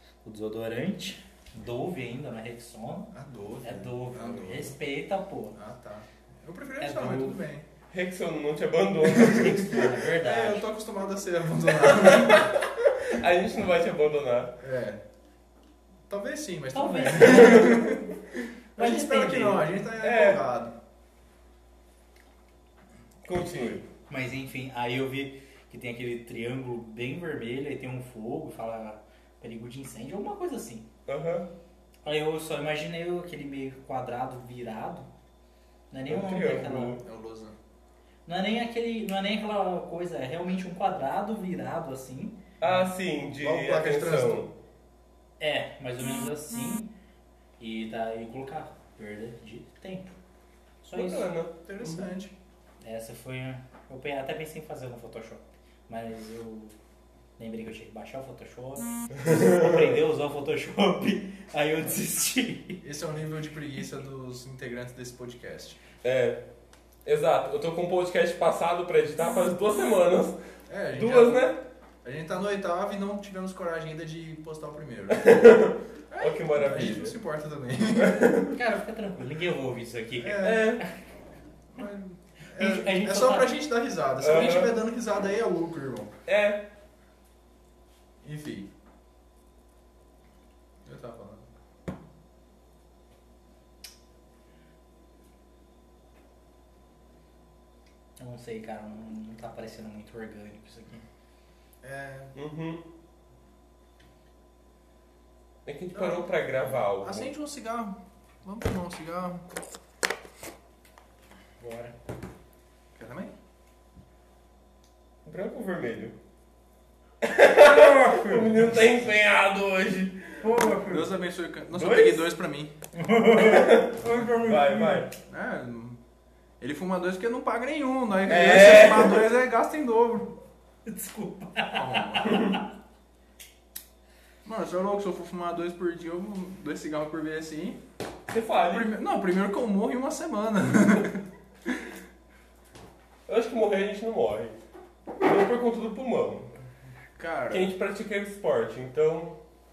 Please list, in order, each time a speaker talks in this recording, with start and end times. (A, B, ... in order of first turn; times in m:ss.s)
0:00.2-0:05.6 A
0:03.1-0:04.8 B
0:05.5-0:07.6 B
0:06.8-0:07.4 A
0:07.9-0:09.8 C
0:09.1-0:10.7 A
0:09.4-0:12.6 B
0:11.9-0:14.6 C
0:14.6-0:15.0 B
0:16.1-0:18.1 B
0:16.7-0:18.1 A
0:17.3-0:17.8 C
0:18.8-0:20.7 B
0:18.8-0:19.7 A
0:20.0-0:20.4 C
0:23.2-0:23.8 C
0:24.1-0:30.9 A
0:31.1-0:31.5 C
0:32.0-0:35.1 A
0:35.9-0:37.0 A
0:36.1-0:37.0 C
0:37.0-0:37.5 B
0:38.2-0:42.4 A
0:42.6-0:44.5 C
0:43.4-0:44.4 B
0:45.4-0:46.9 A
0:47.6-0:50.2 A
0:50.8-0:51.3 A
0:50.9-0:52.1 C
0:51.6-0:52.3 B
0:52.8-0:56.7 A
0:57.4-1:02.8 A
0:59.2-0:59.8 C
1:02.8-1:05.8 B
1:06.0-1:06.4 C
1:07.0-1:10.4 C
1:10.7-1:15.4 B
1:10.9-1:11.6 C
1:15.1-1:17.2 C
1:16.1-1:18.4 B
1:18.0-1:18.6 C
1:18.5-1:20.9 A
1:20.2-1:20.8 B
1:20.4-1:20.8 C
1:21.7-1:26.1 B
1:22.5-1:23.5 A
1:24.2-1:24.8 C
1:26.3-1:26.6 C
1:28.2-1:28.7 B
1:30.8-1:31.5 B
1:38.2-1:41.0 A
1:41.8-1:42.3 B
1:42.3-1:42.8 C
1:45.6-1:47.3 C
1:45.9-1:46.3 B
1:47.0-1:49.4 B
1:51.6-1:52.0 A
1:52.9-1:53.3 B
1:55.2-1:56.2 C
1:57.2-2:00.4 C
1:57.7-1:58.8 A
2:00.4-2:01.1 A
2:00.8-2:02.7 B
2:01.7-2:02.2 C
2:02.9-2:05.1 A
2:03.3-2:05.1 C
2:05.3-2:06.0 B
2:06.6-2:10.4 B
2:08.3-2:09.2 C
2:10.8-2:12.6 A
2:11.7-2:12.6 B
2:12.2-2:12.6 C
2:14.4-2:17.8 B
2:18.3-2:18.9 C
2:18.7-2:21.9 B
2:23.3-2:24.6 C
2:25.2-2:26.5 C
2:27.2-2:27.7 B
2:27.5-2:29.4 C